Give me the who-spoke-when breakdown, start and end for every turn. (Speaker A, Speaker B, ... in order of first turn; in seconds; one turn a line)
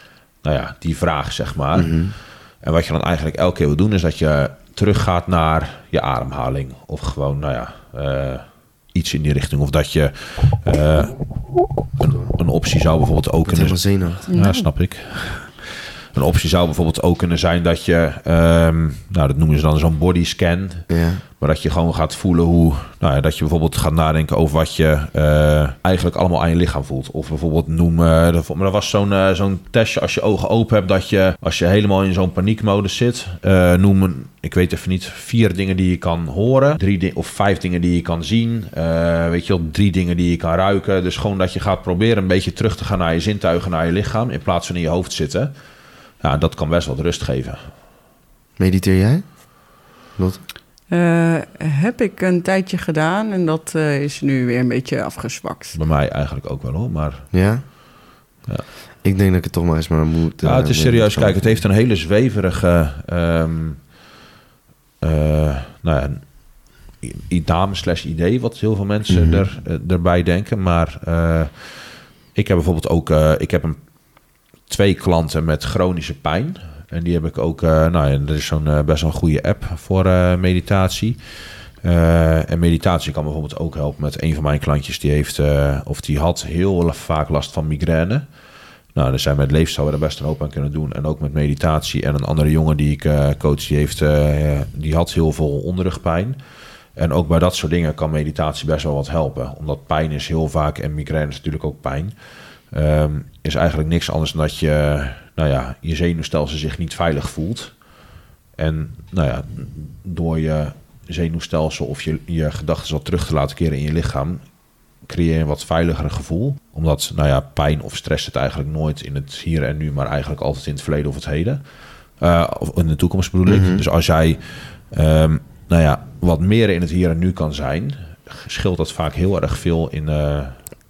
Speaker A: 0.4-45.5
Speaker B: 1.7-2.1
Speaker B: 13.4-14.2
Speaker C: 14.3-14.7
Speaker B: 20.9-21.2
Speaker A: 46.1-47.7
Speaker B: 48.6-50.4
Speaker C: 50.9-55.8
Speaker A: 55.7-57.9
Speaker B: 57.3-57.6
Speaker B: 59.0-61.6
Speaker A: 60.4-63.9
Speaker A: 65.0-73.9
Speaker B: 69.1-69.5
Speaker A: 74.6-88.3
Speaker A: 88.9-96.4
Speaker A: 96.9-107.8
Speaker A: 108.6-114.4
Speaker A: 115.0-130.6
Speaker B: 123.5-123.8